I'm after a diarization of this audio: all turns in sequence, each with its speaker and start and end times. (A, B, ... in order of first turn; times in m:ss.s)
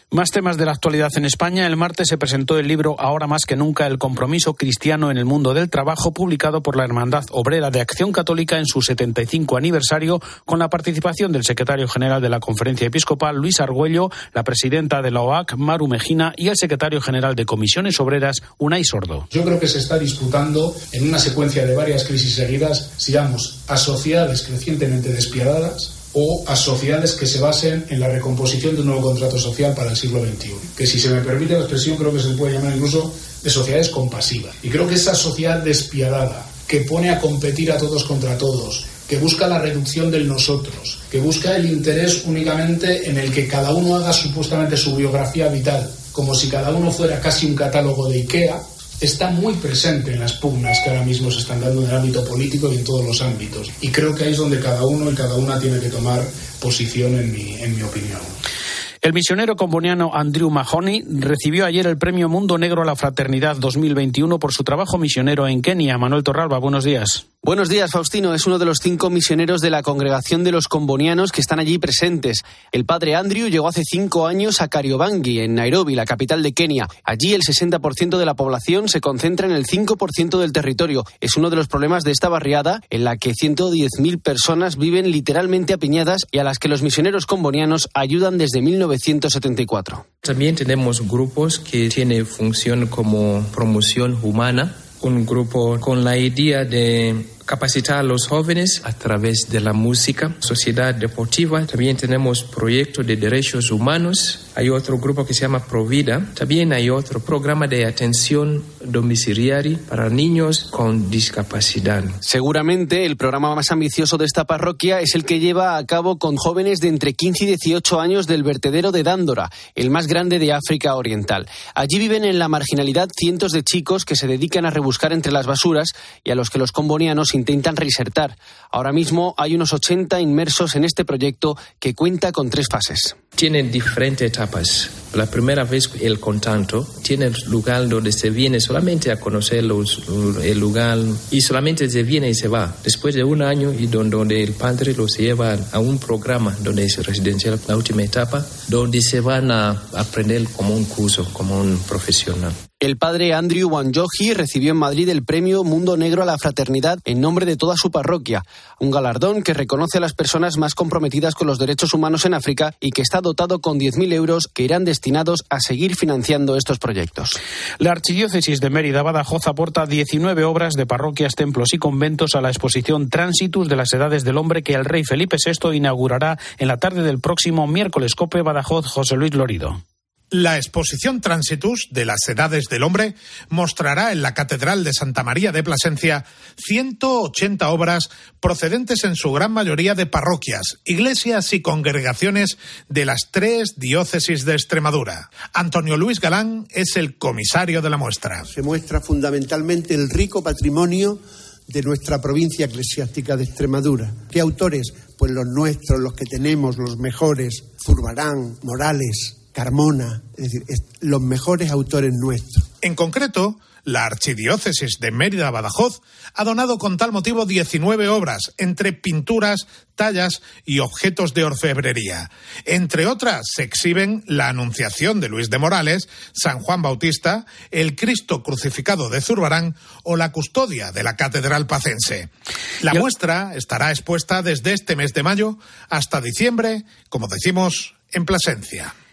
0:00.1-0:19.2 A
0:19.3-0:58.3 B
0:59.0-1:07.2 A
1:07.4-1:30.0 C
1:30.2-1:52.2 D
1:52.2-2:13.2 C
2:13.4-2:32.6 D
2:32.8-2:47.3 C
2:47.8-2:59.8 A
3:00.3-3:18.5 E
3:18.5-3:32.7 F
3:32.8-3:52.3 E
3:52.8-3:58.9 E